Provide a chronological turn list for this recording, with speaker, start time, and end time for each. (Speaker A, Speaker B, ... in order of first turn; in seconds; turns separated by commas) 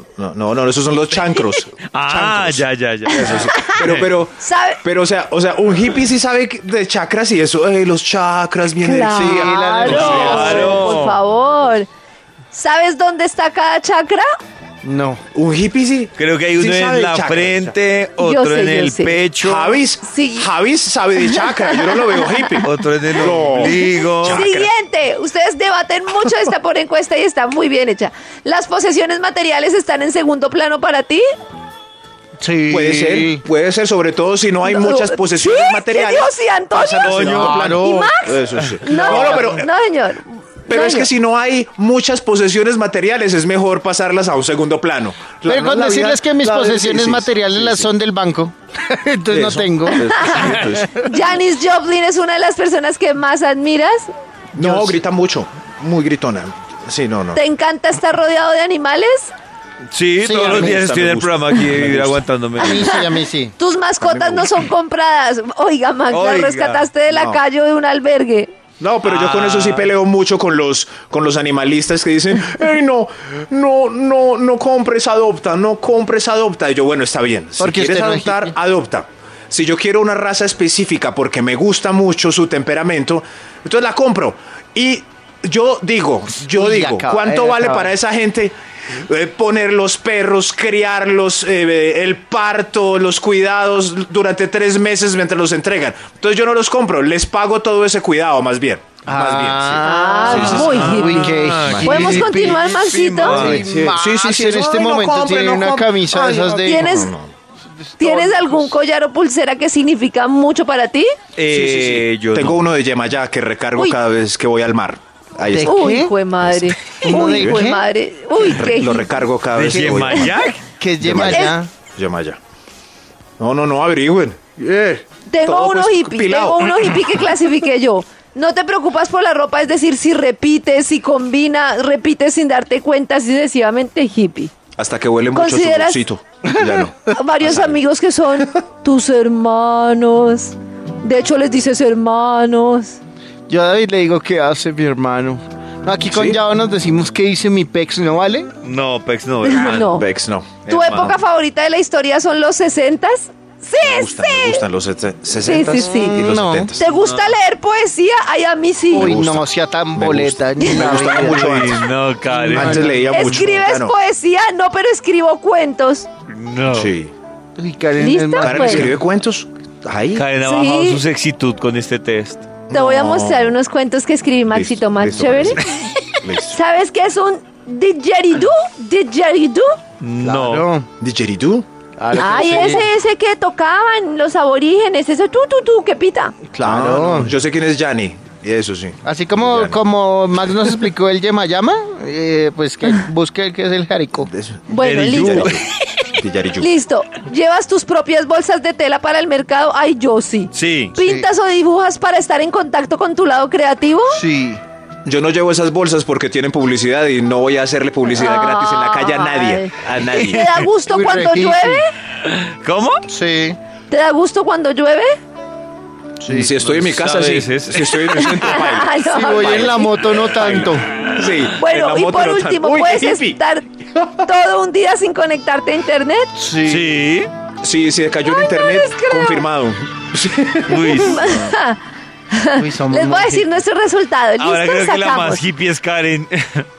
Speaker A: 0.2-11.1, Speaker B: 1.8-4.1, Speaker C: 3.1-3.8, Speaker C: 4.4-4.8, Speaker C: 8.8-11.9, Speaker D: 9.1-10.7, Speaker B: 9.8-11.2, Speaker C: 12.5-14.3, Speaker D: 14.8-15.2, Speaker A: 15.3-17.7, Speaker B: 16.2-19.8, Speaker C: 18.2-19.2, Speaker A: 19.4-24.7, Speaker C: 20.0-20.5, Speaker C: 21.2-22.3, Speaker B: 22.6-24.4, Speaker C: 23.7-31.2, Speaker D: 32.4-33.4, Speaker A: 32.7-39.7, Speaker C: 34.6-41.1, Speaker B: 37.0-37.9, Speaker B: 38.6-39.4, Speaker A: 40.7-47.9, Speaker D: 45.4-51.1, Speaker A: 49.3-50.9, Speaker C: 49.9-54.1, Speaker A: 54.5-57.4, Speaker D: 54.5-55.0, Speaker C: 57.3-59.3, Speaker B: 59.9-63.0, Speaker D: 60.2-60.8, Speaker A: 60.2-62.2, Speaker D: 62.6-63.5, Speaker C: 63.6-68.5, Speaker A: 64.0-64.6, Speaker B: 66.1-66.9, Speaker A: 67.1-67.4, Speaker A: 68.8-102.5, Speaker B: 69.0-69.9, Speaker D: 77.6-78.5, Speaker D: 86.5-87.9, Speaker D: 99.0-102.7, Speaker C: 99.8-101.3, Speaker B: 100.3-103.7, Speaker C: 101.8-103.4, Speaker A: 103.2-107.3, Speaker D: 103.2-107.0, Speaker C: 106.6-107.1, Speaker D: 107.9-108.7, Speaker C: 108.0-111.2, Speaker B: 111.3-112.6, Speaker A: 111.5-115.8, Speaker D: 115.4-116.2, Speaker C: 115.7-119.2, Speaker A: 116.4-117.6, Speaker D: 117.0-117.8, Speaker A: 118.4-120.4, Speaker B: 119.5-120.7, Speaker D: 120.7-121.7, Speaker A: 121.0-122.4, Speaker C: 121.2-121.5, Speaker A: 123.4-126.9, Speaker C: 125.3-134.5, Speaker A: 134.8-137.8, Speaker C: 135.3-136.0, Speaker C: 137.1-143.0, Speaker D: 143.5-148.5, Speaker A: 146.1-146.4, Speaker B: 148.6-150.0, Speaker C: 149.4-150.0, Speaker A: 149.9-151.1, Speaker B: 150.7-151.1, Speaker C: 150.7-154.7, Speaker A: 153.8-156.9, Speaker C: 155.4-156.2, Speaker D: 155.8-156.7, Speaker C: 156.8-159.2, Speaker B: 156.9-157.3, Speaker D: 158.9-161.7, Speaker A: 158.9-161.9, Speaker C: 160.6-161.0, Speaker B: 161.2-162.8, Speaker D: 162.3-163.5, Speaker A: 162.5-163.9, Speaker C: 163.1-166.1, Speaker B: 166.3-166.9, Speaker A: 166.7-167.1, Speaker D: 167.6-169.0, Speaker C: 168.0-168.9, Speaker A: 168.4-170.3, Speaker B: 170.1-172.6, Speaker C: 170.4-171.0, Speaker A: 172.7-173.5, Speaker C: 172.7-175.9, Speaker A: 174.5-175.6, Speaker A: 176.2-176.6, Speaker C: 176.4-179.8, Speaker B: 180.0-180.7, Speaker D: 180.2-180.9, Speaker A: 181.0-181.7, Speaker D: 182.0-182.9, Speaker C: 182.1-186.4, Speaker D: 186.5-187.3, Speaker A: 186.6-189.8, Speaker D: 189.0-194.3, Speaker A: 194.2-195.6, Speaker C: 194.7-195.6, Speaker B: 194.8-195.7, Speaker A: 196.2-196.7, Speaker C: 196.6-204.2, Speaker B: 200.5-201.0, Speaker D: 201.0-201.3, Speaker D: 204.1-204.6, Speaker A: 205.0-210.3, Speaker C: 208.1-211.9, Speaker B: 209.8-210.8, Speaker D: 210.9-211.8, Speaker B: 212.2-213.0, Speaker D: 213.1-213.6, Speaker C: 213.9-215.2, Speaker D: 216.2-216.5, Speaker A: 216.3-223.4, Speaker B: 216.3-218.7, Speaker C: 218.2-220.1, Speaker D: 219.1-220.9, Speaker B: 220.2-221.2, Speaker C: 221.5-223.7, Speaker C: 224.2-226.3, Speaker D: 226.3-226.9, Speaker B: 226.6-227.3, Speaker A: 227.6-231.0, Speaker C: 228.2-229.5, Speaker B: 230.7-231.5, Speaker C: 230.8-231.8, Speaker C: 232.3-235.4, Speaker D: 232.6-233.5, Speaker B: 234.4-236.7